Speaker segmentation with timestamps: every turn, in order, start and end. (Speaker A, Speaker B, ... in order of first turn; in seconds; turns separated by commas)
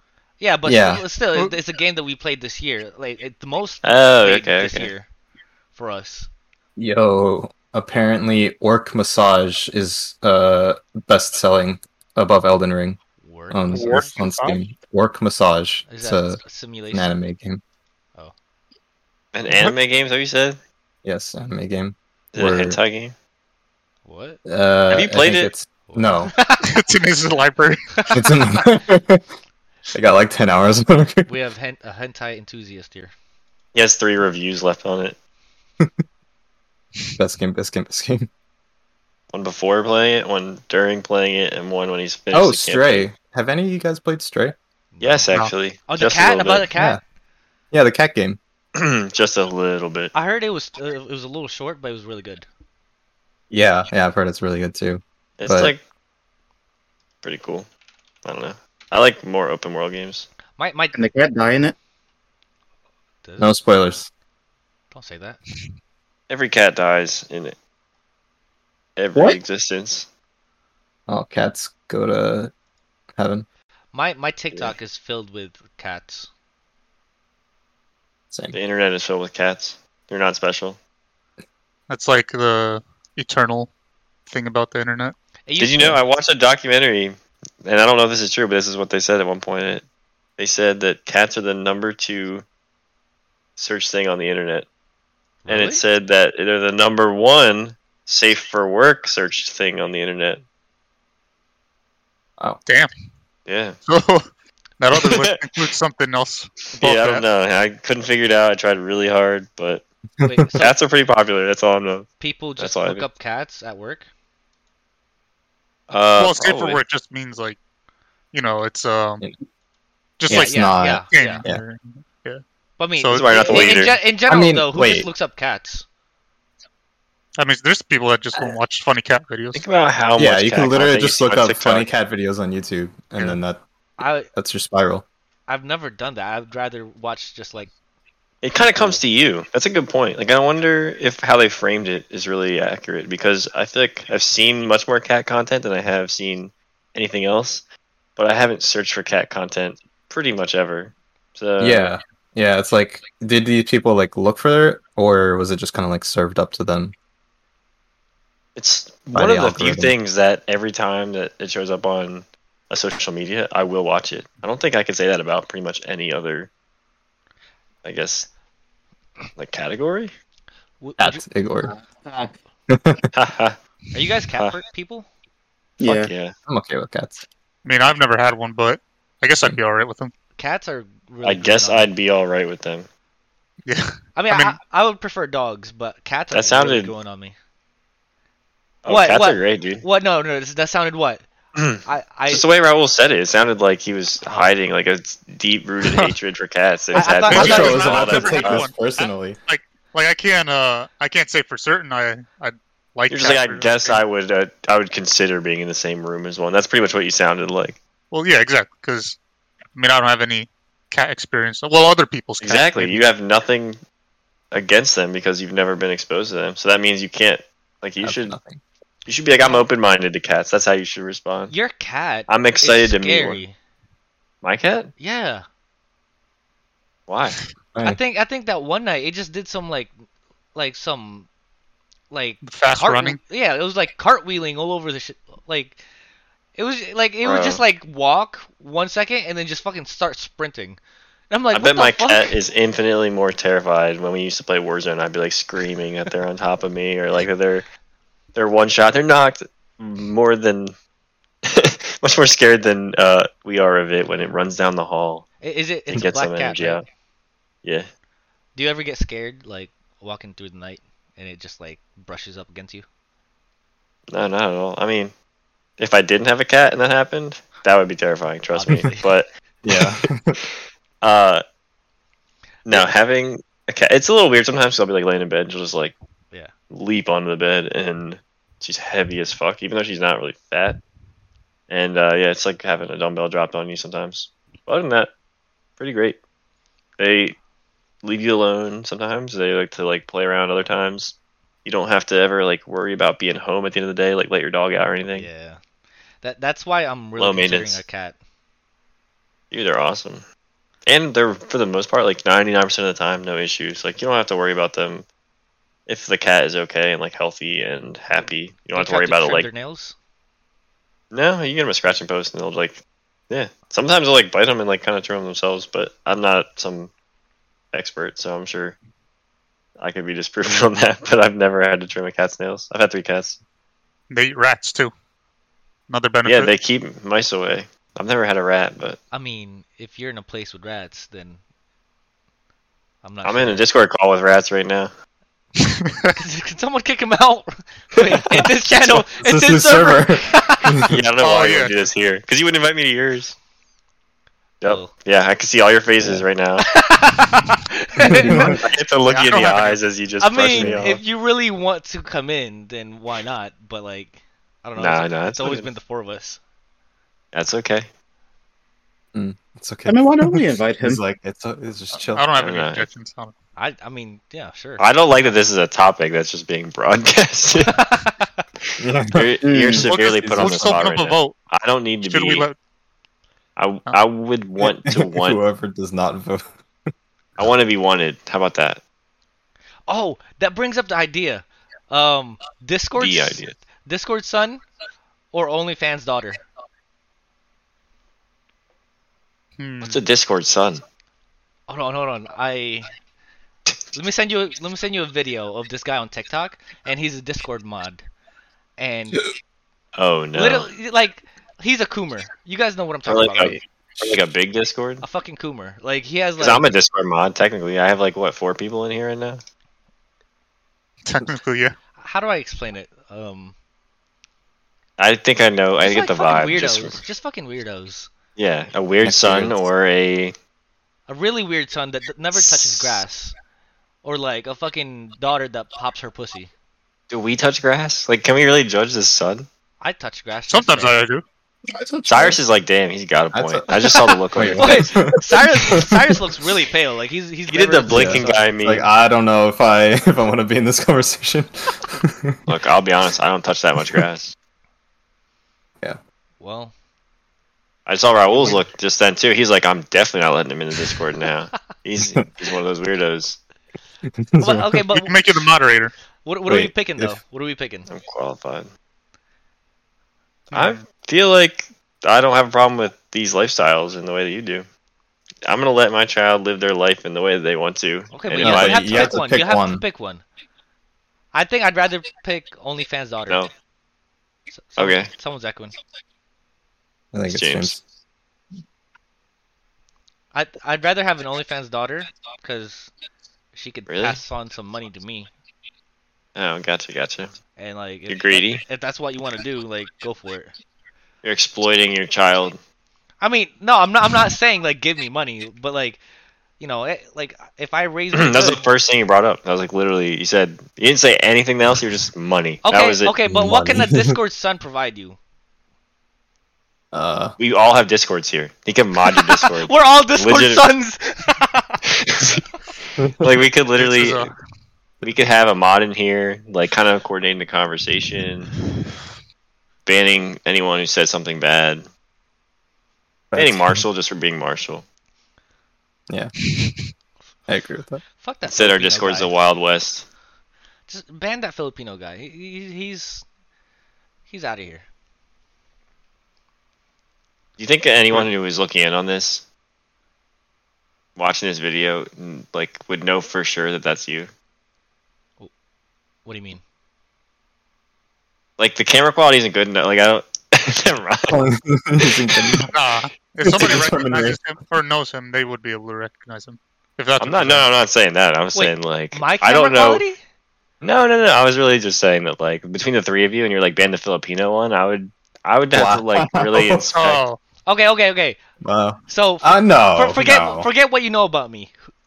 Speaker A: 0.4-5.1, Speaker B: 0.6-1.0, Speaker C: 3.8-4.9, Speaker A: 5.7-6.3, Speaker B: 6.8-13.0, Speaker A: 13.2-14.1, Speaker B: 13.5-17.6, Speaker D: 13.7-14.6, Speaker A: 15.9-17.1, Speaker C: 19.3-20.6, Speaker D: 19.5-19.7, Speaker B: 21.0-22.8, Speaker C: 22.3-23.1, Speaker A: 24.0-24.4, Speaker B: 24.4-26.3, Speaker C: 24.9-25.5, Speaker A: 25.9-26.7, Speaker D: 26.6-28.1, Speaker A: 27.9-28.2, Speaker B: 28.1-29.2, Speaker B: 29.9-31.3, Speaker A: 31.3-33.1, Speaker C: 33.7-35.2, Speaker B: 37.2-38.3, Speaker C: 39.3-43.1, Speaker B: 42.3-44.5, Speaker A: 44.9-47.0, Speaker C: 45.0-46.7, Speaker B: 47.7-48.4, Speaker C: 48.7-50.1, Speaker A: 50.1-52.5, Speaker B: 53.5-55.7, Speaker C: 55.4-55.8, Speaker C: 57.2-57.7, Speaker C: 58.2-60.3, Speaker A: 60.6-60.9, Speaker E: 60.9-61.7, Speaker A: 63.2-63.5, Speaker B: 63.4-64.1, Speaker A: 64.9-65.4, Speaker C: 66.3-67.5, Speaker C: 69.0-70.1, Speaker B: 71.1-72.5, Speaker B: 73.2-73.5, Speaker A: 73.9-76.3, Speaker B: 78.3-78.5, Speaker C: 78.5-80.8, Speaker D: 81.9-83.7, Speaker D: 84.3-85.1, Speaker A: 85.5-86.0, Speaker C: 85.6-89.8, Speaker C: 90.4-92.4, Speaker C: 93.6-94.7, Speaker A: 95.4-95.8, Speaker C: 95.5-100.4, Speaker C: 103.5-103.8, Speaker D: 103.8-104.3, Speaker D: 104.8-107.2, Speaker C: 104.9-105.7, Speaker C: 106.7-109.8, Speaker B: 110.2-110.5, Speaker A: 110.2-110.8, Speaker C: 110.6-113.1, Speaker A: 112.2-114.0, Speaker C: 115.9-116.8, Speaker D: 116.2-117.6, Speaker D: 118.3-119.2, Speaker D: 120.2-122.4, Speaker B: 120.3-121.6, Speaker A: 120.3-121.4, Speaker A: 122.8-125.8, Speaker D: 123.0-123.8, Speaker C: 123.1-124.0, Speaker B: 124.3-125.1, Speaker D: 127.4-129.6, Speaker C: 129.5-131.9, Speaker B: 130.2-133.6, Speaker A: 134.0-134.3, Speaker B: 134.3-135.0, Speaker A: 135.5-137.7, Speaker C: 138.4-147.6, Speaker A: 138.6-139.0, Speaker C: 148.2-151.8, Speaker B: 151.6-156.9, Speaker C: 158.6-166.5, Speaker B: 159.1-159.9, Speaker C: 167.8-168.3, Speaker C: 169.3-170.1, Speaker A: 170.8-171.2, Speaker B: 171.0-171.7, Speaker E: 171.7-172.4, Speaker B: 172.7-173.1, Speaker C: 173.1-173.6, Speaker A: 173.9-175.1, Speaker E: 175.8-176.1, Speaker C: 175.8-176.3, Speaker B: 176.5-177.2, Speaker D: 177.6-180.1, Speaker A: 180.4-181.9, Speaker C: 181.2-182.9, Speaker D: 183.7-184.6, Speaker A: 184.1-187.3, Speaker C: 186.3-186.9, Speaker C: 188.8-189.8, Speaker A: 188.9-191.2, Speaker C: 191.5-198.7, Speaker A: 191.8-192.4, Speaker A: 196.9-198.0, Speaker D: 197.3-204.0, Speaker B: 197.3-199.4, Speaker C: 203.1-207.8, Speaker D: 208.1-209.2, Speaker D: 209.7-213.1, Speaker C: 212.4-213.8, Speaker C: 214.5-218.4, Speaker B: 218.0-218.6, Speaker C: 219.1-221.5, Speaker A: 219.4-219.7, Speaker A: 221.5-223.6, Speaker C: 222.3-223.4, Speaker C: 224.4-224.9, Speaker A: 225.0-225.4, Speaker C: 227.1-227.4, Speaker A: 227.8-229.9, Speaker A: 230.5-231.3, Speaker A: 232.1-235.8, Speaker D: 232.4-233.2, Speaker A: 236.6-240.8, Speaker C: 237.2-237.6, Speaker A: 241.3-242.3, Speaker C: 241.5-247.6, Speaker C: 248.3-250.7, Speaker C: 251.4-255.3, Speaker A: 255.4-256.8, Speaker C: 255.9-256.8, Speaker A: 258.5-262.8, Speaker C: 264.1-265.1, Speaker C: 265.8-271.4, Speaker A: 268.5-269.1, Speaker B: 269.6-270.4, Speaker C: 272.6-275.9, Speaker C: 276.7-280.8, Speaker C: 281.7-285.1, Speaker C: 285.8-286.2, Speaker C: 287.0-287.4, Speaker C: 288.0-295.3, Speaker A: 295.1-295.6, Speaker A: 296.2-298.1, Speaker C: 297.2-297.8, Speaker C: 299.5-300.2, Speaker C: 300.9-305.1, Speaker C: 305.9-309.5, Speaker A: 308.7-309.9, Speaker C: 311.1-316.9, Speaker C: 317.7-318.8, Speaker C: 319.8-323.4, Speaker D: 324.1-324.9, Speaker D: 325.9-326.5, Speaker C: 326.2-329.0, Speaker A: 329.1-331.4, Speaker A: 333.0-333.6, Speaker C: 333.2-334.9, Speaker D: 335.7-336.2, Speaker A: 336.1-340.9, Speaker C: 338.0-339.0, Speaker B: 339.2-340.9, Speaker C: 340.9-343.4, Speaker D: 341.2-341.9, Speaker C: 344.6-346.7, Speaker A: 344.6-344.9, Speaker A: 346.6-348.6, Speaker B: 348.0-348.6, Speaker C: 348.3-351.0, Speaker D: 349.1-349.8, Speaker A: 350.2-356.4, Speaker B: 350.5-350.8, Speaker C: 354.8-355.7, Speaker C: 357.3-357.9, Speaker B: 359.1-362.2, Speaker E: 359.9-361.0, Speaker D: 361.9-363.3, Speaker C: 362.4-362.9, Speaker A: 363.6-364.9, Speaker C: 364.8-367.8, Speaker A: 367.6-368.4, Speaker B: 368.8-369.3, Speaker C: 369.1-372.5, Speaker E: 369.4-369.9, Speaker D: 369.8-371.4, Speaker B: 370.0-370.8, Speaker D: 372.0-372.5, Speaker C: 373.6-375.4, Speaker B: 374.6-376.6, Speaker C: 377.4-378.8, Speaker A: 379.9-384.6, Speaker C: 383.0-383.6, Speaker A: 385.3-386.4, Speaker D: 389.6-390.0, Speaker C: 389.8-390.8, Speaker A: 391.7-392.9, Speaker A: 393.9-398.0, Speaker A: 398.8-399.2, Speaker C: 399.9-400.7, Speaker A: 400.3-403.6, Speaker C: 403.1-405.0, Speaker A: 405.0-406.7, Speaker C: 406.4-409.4, Speaker D: 411.0-411.7, Speaker A: 412.0-413.5, Speaker C: 415.0-417.0, Speaker A: 415.8-418.1, Speaker C: 418.4-420.3, Speaker B: 419.0-419.5, Speaker A: 421.1-423.3, Speaker A: 424.0-426.5, Speaker C: 427.1-429.5, Speaker A: 429.8-430.9, Speaker D: 430.5-431.2, Speaker E: 431.7-432.4, Speaker C: 432.1-434.9, Speaker B: 433.3-436.2, Speaker A: 433.7-438.5, Speaker C: 437.5-438.9, Speaker B: 437.9-442.4, Speaker C: 442.5-444.3, Speaker A: 446.4-446.7, Speaker C: 447.9-453.4, Speaker A: 448.3-448.6, Speaker B: 454.2-454.8, Speaker A: 454.4-455.4, Speaker D: 454.9-455.9, Speaker A: 456.2-457.9, Speaker B: 456.5-457.2, Speaker C: 457.9-458.7, Speaker D: 460.5-460.8, Speaker C: 460.5-464.6, Speaker C: 465.4-469.1, Speaker A: 468.1-470.2, Speaker B: 468.4-469.8, Speaker A: 471.3-473.4, Speaker A: 474.6-475.7, Speaker C: 474.8-475.1, Speaker B: 477.1-477.8, Speaker C: 477.3-477.7, Speaker A: 480.3-482.9, Speaker A: 483.5-485.3, Speaker C: 483.9-484.2, Speaker C: 486.3-487.4, Speaker A: 487.6-490.5, Speaker C: 488.1-488.6, Speaker C: 491.2-492.6, Speaker A: 493.2-496.0, Speaker A: 496.6-498.6, Speaker C: 498.1-503.1, Speaker A: 502.6-505.2, Speaker B: 503.3-504.1, Speaker B: 506.9-507.3, Speaker C: 507.4-510.7, Speaker A: 509.0-511.8, Speaker C: 512.0-512.4, Speaker C: 513.2-514.3, Speaker D: 513.8-514.3, Speaker C: 515.0-518.5, Speaker C: 519.9-521.9, Speaker B: 523.3-523.8, Speaker C: 523.3-524.8, Speaker B: 527.5-528.0, Speaker A: 528.2-529.3, Speaker C: 528.4-530.1, Speaker A: 530.9-533.2, Speaker A: 534.3-534.9, Speaker C: 537.6-539.5, Speaker C: 541.1-544.3, Speaker A: 546.2-546.6, Speaker C: 548.6-551.4, Speaker B: 551.3-552.6, Speaker D: 552.6-557.7, Speaker B: 553.4-554.4, Speaker C: 557.2-560.0, Speaker A: 558.5-560.2, Speaker C: 560.8-567.2, Speaker B: 565.7-566.9, Speaker D: 566.9-567.4, Speaker A: 567.6-568.4, Speaker B: 568.6-570.7, Speaker A: 569.1-571.9